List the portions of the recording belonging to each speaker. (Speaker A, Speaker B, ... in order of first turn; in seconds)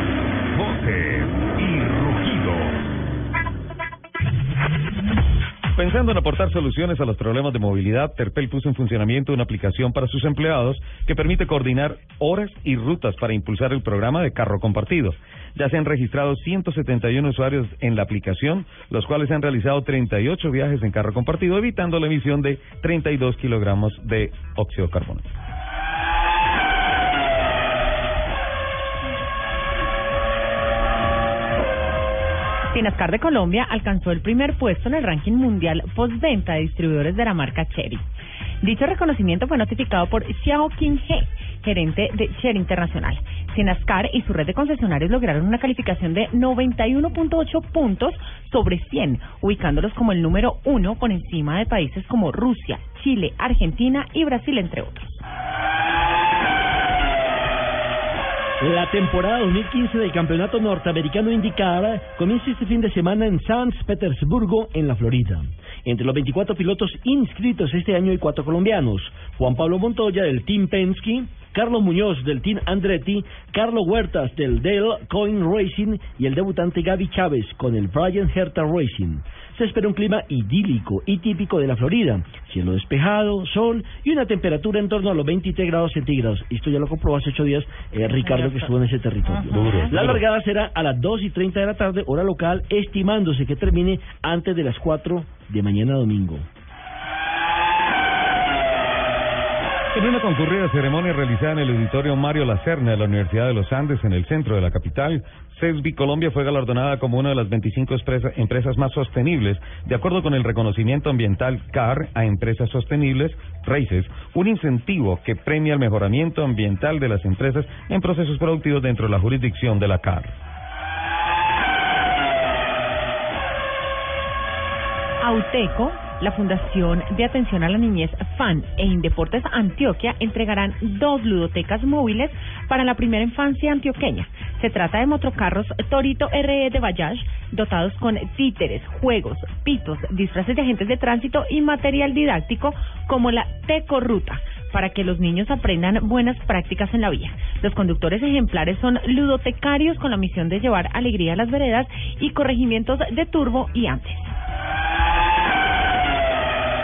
Speaker A: 0.5-2.8
Speaker B: 5.8-25.3, 99.9-120.4
Speaker C: 32.7-38.0, 38.6-55.2, 88.3-88.7, 125.2-154.3
Speaker D: 58.6-96.5